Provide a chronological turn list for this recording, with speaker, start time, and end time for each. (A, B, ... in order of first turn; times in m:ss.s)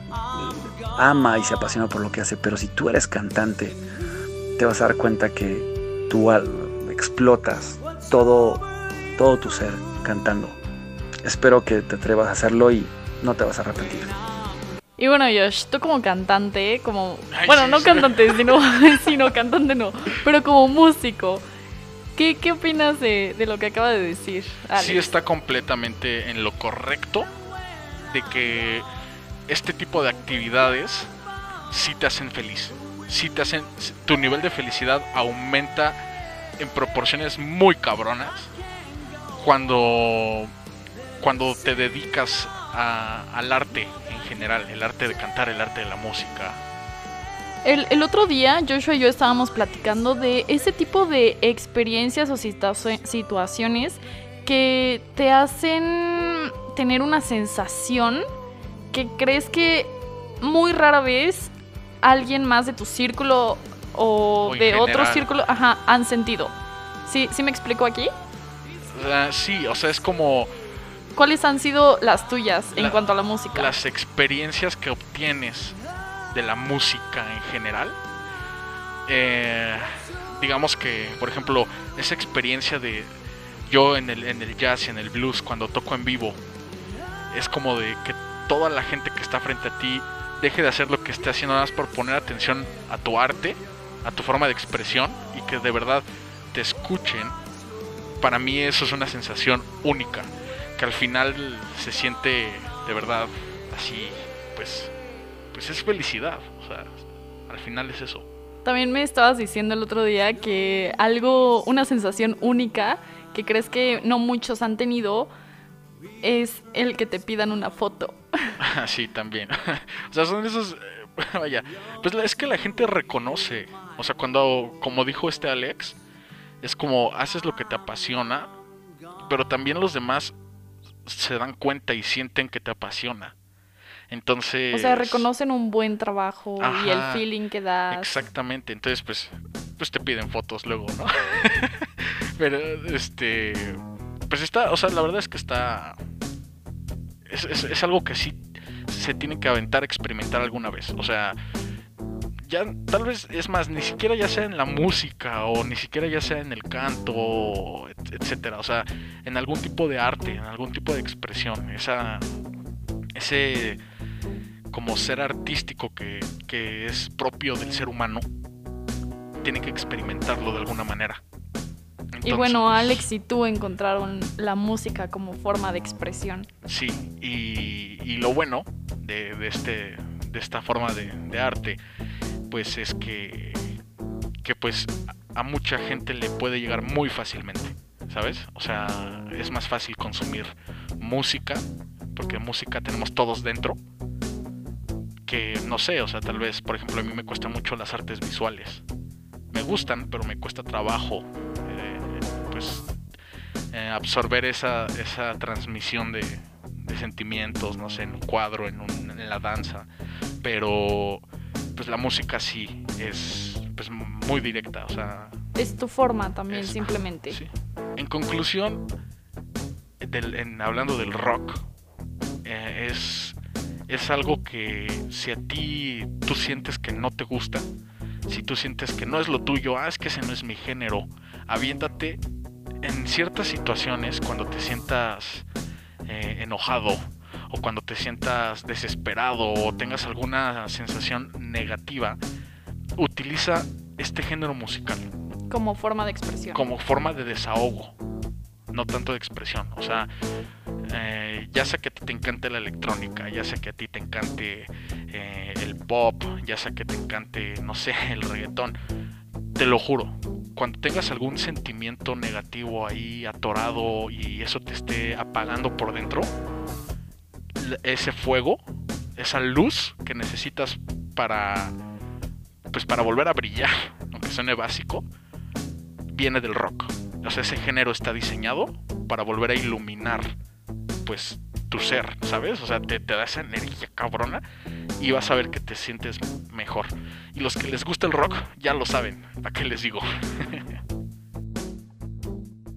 0:00.3-0:03.8 A
0:04.6-0:10.6 A
0:11.2-0:14.1 A
0:15.0-0:21.4 B
0:17.3-0:18.6 C
0:22.2-0:25.1 B
0:24.8-0:27.3 C
0:28.1-0:28.8 C
0:29.5-0:31.1 C
0:31.7-0:36.0 C
0:36.6-0:38.5 C
0:39.4-0:40.5 C
0:41.2-0:46.6 C
0:47.6-0:58.2 B
0:58.9-1:06.5 B
1:04.4-1:05.3 C
1:07.0-1:08.1 B
1:08.9-1:10.5 C
1:11.2-1:13.7 B
1:13.5-1:15.8 C
1:16.3-1:18.0 C
1:19.1-1:23.1 C
1:23.7-1:26.4 C
1:27.3-1:37.3 C
1:38.2-1:44.9 C
1:45.5-1:48.2 C
1:48.6-1:55.3 B
1:56.2-1:58.6 B
1:58.6-2:06.0 C
2:06.6-2:08.5 C
2:09.3-2:10.3 C
2:11.0-2:13.3 C
2:14.1-2:15.2 C
2:14.7-2:18.1 B
2:16.6-2:17.2 C
2:17.9-2:26.0 C
2:27.3-2:31.4 C
2:32.4-2:42.2 C
2:43.1-2:43.8 C
2:44.7-2:48.2 C
2:49.4-2:51.2 C
2:52.2-2:53.0 C
2:52.2-2:56.5 B
2:56.6-3:01.8 C
3:02.5-3:03.8 C
3:04.4-3:13.8 C
3:15.3-3:18.8 C
3:19.5-3:22.9 C
3:23.7-3:29.9 C
3:30.4-3:31.2 C
3:31.7-3:35.4 C
3:35.6-3:37.4 B
3:36.5-3:38.8 C
3:40.0-3:41.6 C
3:42.4-3:43.4 C
3:43.9-3:47.6 C
3:48.3-3:52.2 C
3:52.8-3:55.4 C
3:56.0-4:02.2 C
4:03.0-4:05.1 C
4:05.5-4:06.7 B
4:06.5-4:07.9 C
4:08.7-4:10.1 C
4:10.9-4:18.8 C
4:19.6-4:26.3 C
4:27.6-4:28.6 C
4:29.2-4:31.7 C
4:32.7-4:35.0 C
4:36.1-4:40.3 C
4:41.0-4:44.4 C
4:45.0-4:50.7 C